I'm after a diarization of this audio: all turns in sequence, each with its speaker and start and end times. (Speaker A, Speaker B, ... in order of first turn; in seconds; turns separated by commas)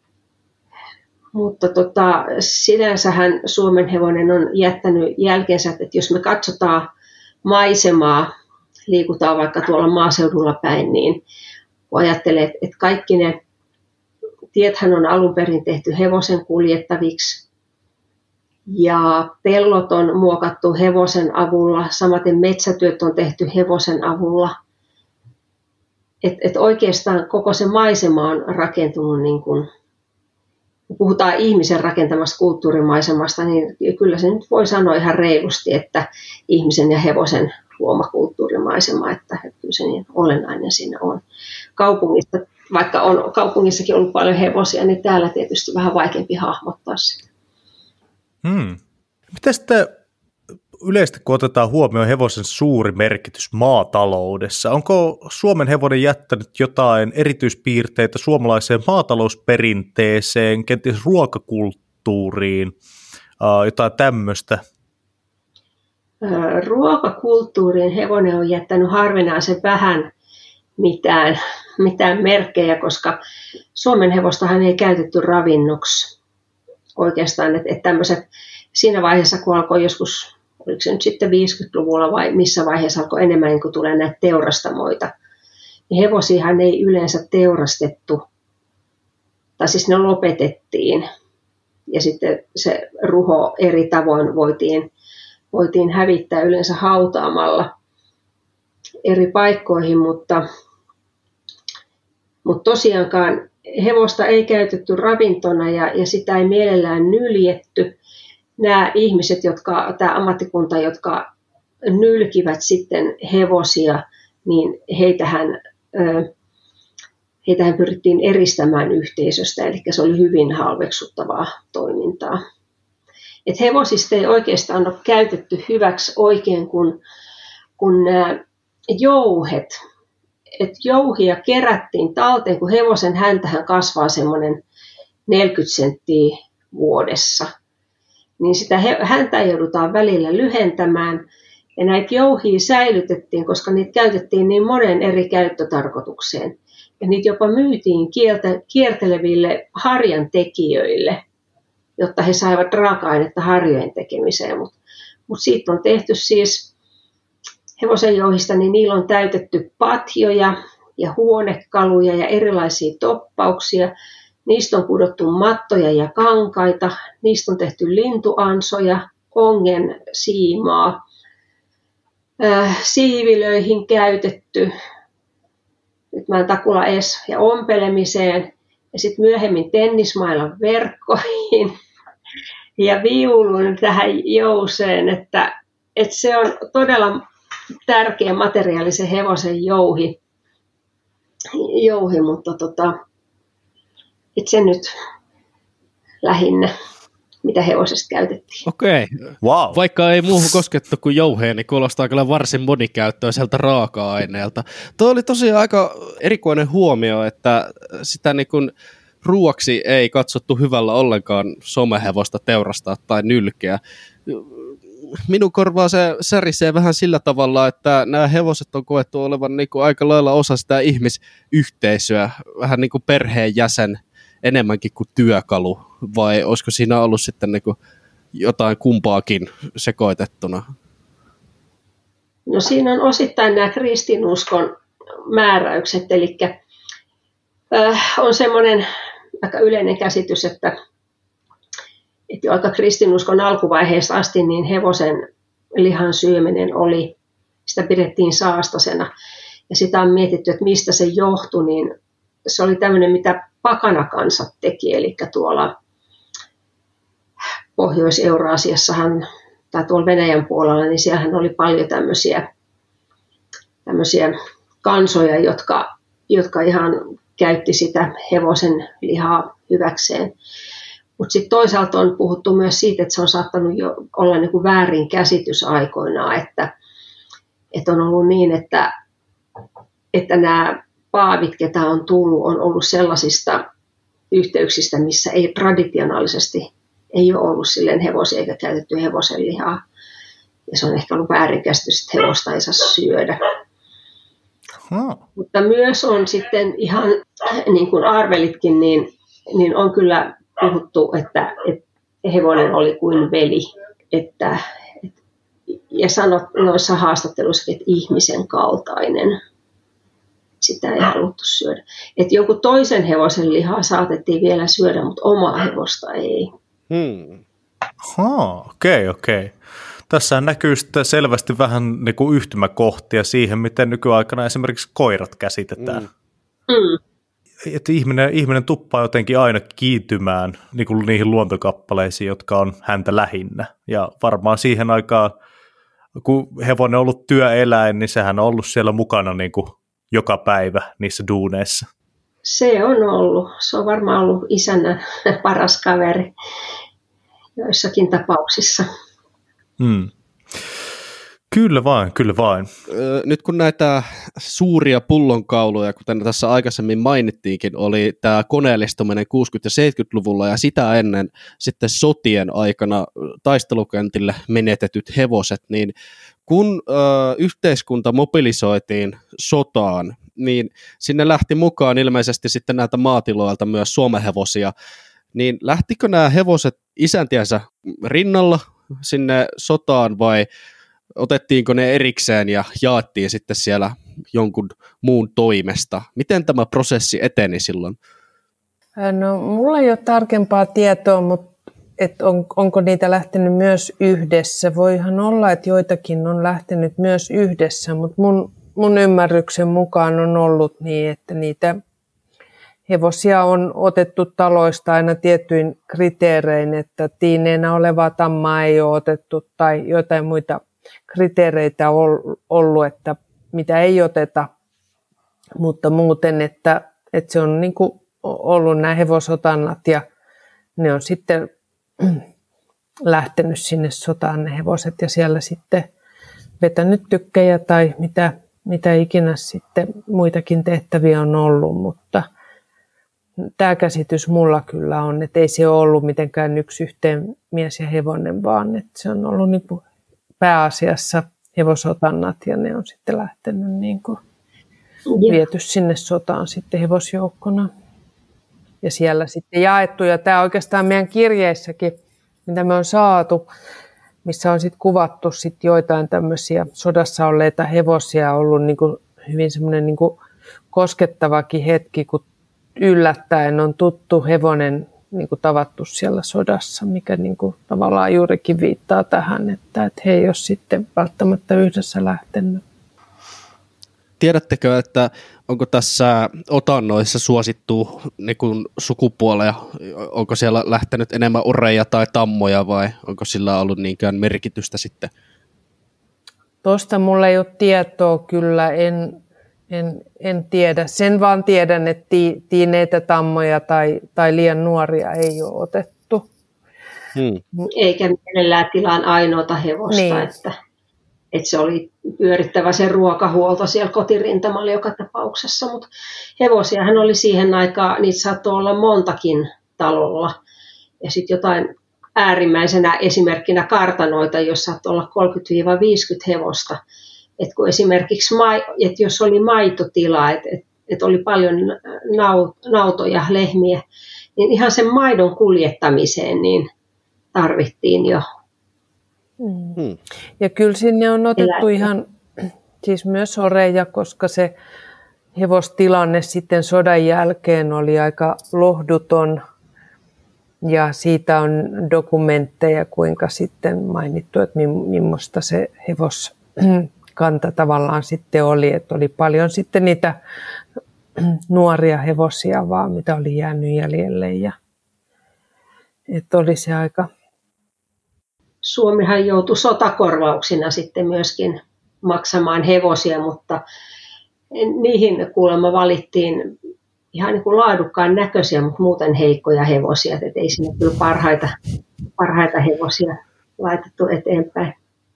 Speaker A: 1.3-6.8, Speaker A: 7.5-8.3, Speaker A: 8.9-11.2, Speaker A: 11.9-13.4, Speaker A: 14.5-17.4, Speaker A: 18.7-24.5, Speaker A: 26.2-29.7, Speaker A: 30.9-41.2, Speaker A: 41.8-47.2, Speaker B: 48.4-48.8, Speaker B: 49.3-49.9, Speaker B: 50.8-62.7, Speaker B: 63.4-64.6, Speaker A: 66.2-70.1, Speaker A: 70.8-73.2, Speaker A: 73.7-76.1, Speaker A: 77.0-85.1, Speaker A: 85.9-88.2, Speaker A: 89.6-91.0, Speaker A: 91.9-94.9, Speaker A: 95.5-97.7, Speaker A: 99.0-100.4, Speaker A: 102.4-107.9, Speaker A: 108.6-111.3, Speaker A: 111.9-116.3, Speaker A: 117.4-122.4, Speaker A: 123.5-127.0, Speaker A: 127.8-128.4, Speaker A: 128.9-129.8, Speaker A: 130.6-134.6, Speaker A: 135.3-137.5, Speaker A: 138.4-141.2, Speaker A: 141.8-151.2, Speaker A: 152.0-154.8, Speaker A: 155.3-156.7, Speaker A: 157.8-163.9, Speaker A: 164.4-171.0, Speaker A: 172.4-174.7, Speaker A: 176.1-181.7, Speaker A: 182.8-187.2, Speaker A: 187.8-190.2, Speaker A: 191.5-192.9, Speaker A: 194.3-194.9, Speaker A: 196.2-196.7, Speaker A: 197.4-198.7, Speaker C: 198.7-208.7, Speaker B: 199.4-199.8, Speaker C: 209.2-227.8, Speaker C: 228.3-230.7, Speaker A: 232.5-234.7, Speaker A: 235.2-236.5, Speaker A: 237.7-238.8, Speaker A: 239.4-240.7, Speaker A: 242.3-245.2, Speaker A: 245.8-247.1, Speaker A: 247.7-249.1, Speaker A: 249.7-251.9, Speaker A: 252.5-255.7, Speaker A: 257.8-262.4, Speaker A: 263.9-270.3, Speaker A: 271.2-276.7, Speaker A: 277.7-278.9, Speaker A: 280.1-283.6, Speaker A: 284.3-289.8, Speaker A: 290.7-293.4, Speaker B: 294.9-295.2, Speaker A: 295.4-305.1, Speaker A: 305.8-309.4, Speaker A: 310.6-316.5, Speaker C: 316.9-317.4, Speaker B: 318.0-319.6, Speaker B: 320.1-326.1, Speaker A: 326.7-327.0, Speaker B: 327.6-335.3, Speaker B: 336.2-341.9, Speaker A: 342.4-346.3, Speaker A: 347.6-348.9, Speaker B: 349.8-350.1, Speaker B: 351.5-352.7, Speaker C: 352.9-365.9, Speaker C: 366.5-374.7, Speaker C: 375.3-380.5, Speaker C: 381.2-388.0, Speaker D: 389.0-401.8, Speaker D: 402.9-414.5, Speaker D: 415.6-420.0, Speaker D: 420.8-422.2, Speaker D: 423.0-425.9, Speaker D: 426.6-432.3, Speaker D: 433.4-439.8, Speaker D: 440.4-444.2, Speaker A: 445.1-445.4, Speaker D: 445.3-447.7, Speaker D: 448.8-453.5, Speaker D: 454.2-460.2, Speaker D: 460.7-462.2, Speaker D: 462.8-472.6, Speaker C: 474.2-485.1, Speaker D: 486.6-496.3, Speaker C: 497.1-497.4, Speaker A: 497.7-500.5, Speaker D: 499.9-500.3, Speaker A: 501.3-505.9, Speaker A: 506.4-510.4, Speaker A: 511.0-516.8, Speaker A: 517.4-523.8, Speaker A: 524.4-526.7, Speaker A: 527.3-528.2, Speaker D: 529.4-529.8, Speaker D: 530.4-534.5, Speaker A: 531.4-531.9, Speaker D: 535.3-539.4, Speaker D: 540.6-550.1, Speaker D: 551.2-554.5, Speaker D: 556.1-557.1, Speaker A: 558.6-563.6, Speaker A: 564.5-566.5, Speaker A: 567.1-571.5, Speaker A: 572.2-574.7